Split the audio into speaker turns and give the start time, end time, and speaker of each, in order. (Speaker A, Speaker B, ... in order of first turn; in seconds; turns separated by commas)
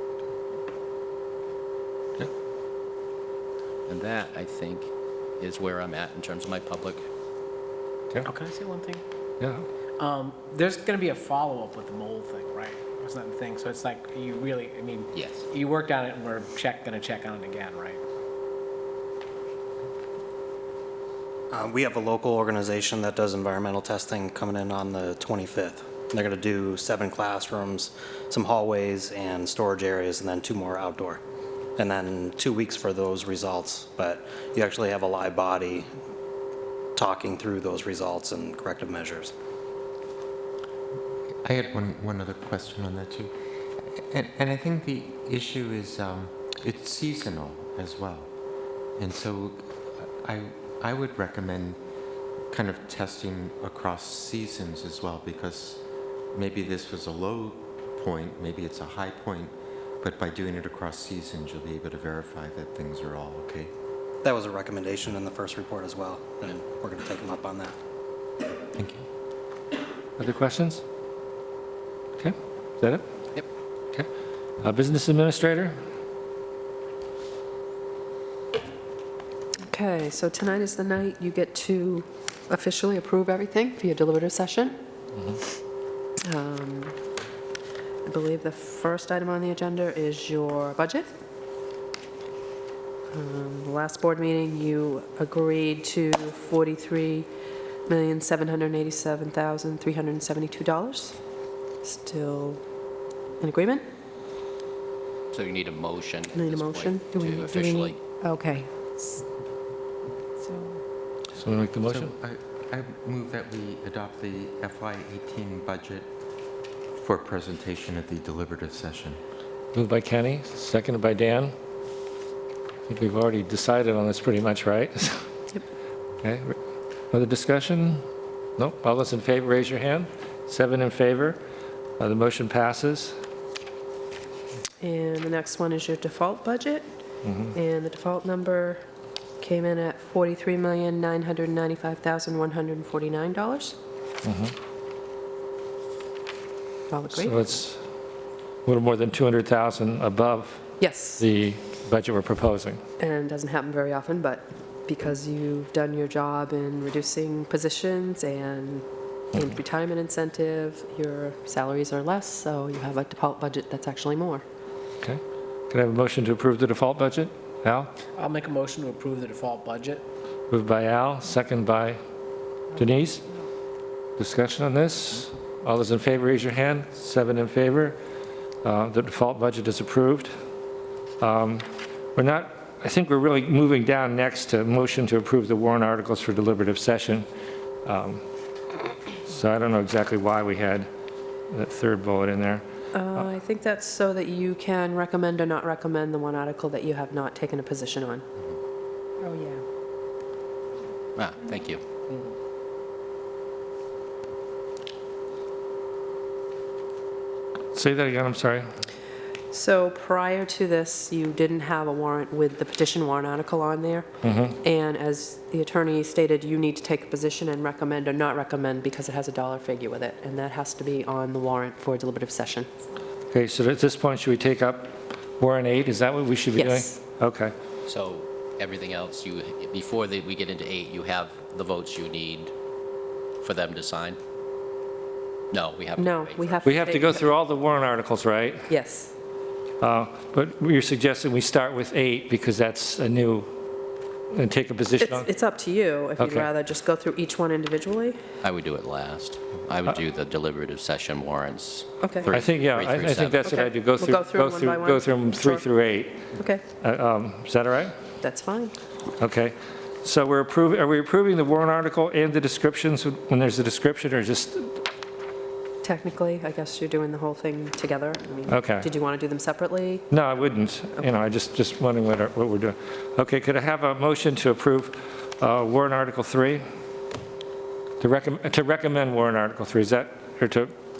Speaker A: 3.9-7.0, Speaker B: 8.2-9.0, Speaker B: 10.0-18.0, Speaker A: 15.1-15.4, Speaker C: 21.5-31.2, Speaker C: 31.8-35.9, Speaker C: 37.0-39.3, Speaker D: 41.4-43.3, Speaker D: 43.9-48.3, Speaker D: 49.0-51.8, Speaker D: 52.5-55.8, Speaker D: 56.3-63.7, Speaker C: 64.2-67.7, Speaker D: 68.7-69.0, Speaker E: 70.2-70.8, Speaker E: 72.2-73.0, Speaker E: 74.6-75.8, Speaker F: 79.7-84.8, Speaker F: 86.2-86.9, Speaker F: 88.0-91.1, Speaker F: 93.1-97.3, Speaker F: 97.9-101.2, Speaker F: 101.8-102.6, Speaker F: 103.4-103.8, Speaker A: 105.3-108.0, Speaker F: 106.3-109.2, Speaker F: 110.4-110.8, Speaker E: 111.4-112.1, Speaker D: 111.8-116.1, Speaker D: 117.0-119.2, Speaker E: 119.7-121.5, Speaker E: 122.9-125.2, Speaker E: 126.2-126.5, Speaker E: 127.1-128.0, Speaker E: 128.6-131.4, Speaker E: 132.0-133.2, Speaker F: 134.8-136.8, Speaker E: 137.2-137.5, Speaker F: 137.5-138.8, Speaker F: 139.4-143.7, Speaker E: 144.2-144.5, Speaker F: 146.9-147.5, Speaker E: 147.1-147.8, Speaker E: 148.7-150.6, Speaker F: 150.8-151.2, Speaker E: 151.2-152.8, Speaker F: 153.0-164.4, Speaker E: 165.0-167.9, Speaker B: 168.2-170.0, Speaker E: 170.5-172.0, Speaker E: 172.8-173.2, Speaker E: 174.2-178.0, Speaker E: 178.6-180.3, Speaker E: 181.2-187.2, Speaker E: 187.8-188.2, Speaker E: 189.3-190.9, Speaker E: 191.5-192.6, Speaker F: 192.9-198.2, Speaker F: 199.2-199.6, Speaker A: 201.2-201.8, Speaker E: 207.7-208.7, Speaker F: 209.5-214.1, Speaker E: 214.2-214.6, Speaker F: 214.6-222.7, Speaker E: 223.3-227.5, Speaker F: 226.6-227.0, Speaker A: 227.8-232.5, Speaker A: 233.4-234.2, Speaker A: 235.5-236.6, Speaker F: 236.0-237.3, Speaker E: 236.6-238.7, Speaker F: 238.7-239.1, Speaker E: 239.8-243.5, Speaker E: 244.3-245.3, Speaker F: 245.0-248.2, Speaker E: 246.2-246.5, Speaker A: 248.4-253.4, Speaker F: 252.0-252.2, Speaker E: 252.3-256.2, Speaker F: 253.4-255.7, Speaker F: 256.4-256.6, Speaker E: 256.8-257.9, Speaker F: 258.2-258.7, Speaker E: 259.2-264.7, Speaker F: 265.8-270.1, Speaker E: 268.5-268.9, Speaker E: 270.1-276.6, Speaker E: 278.0-280.7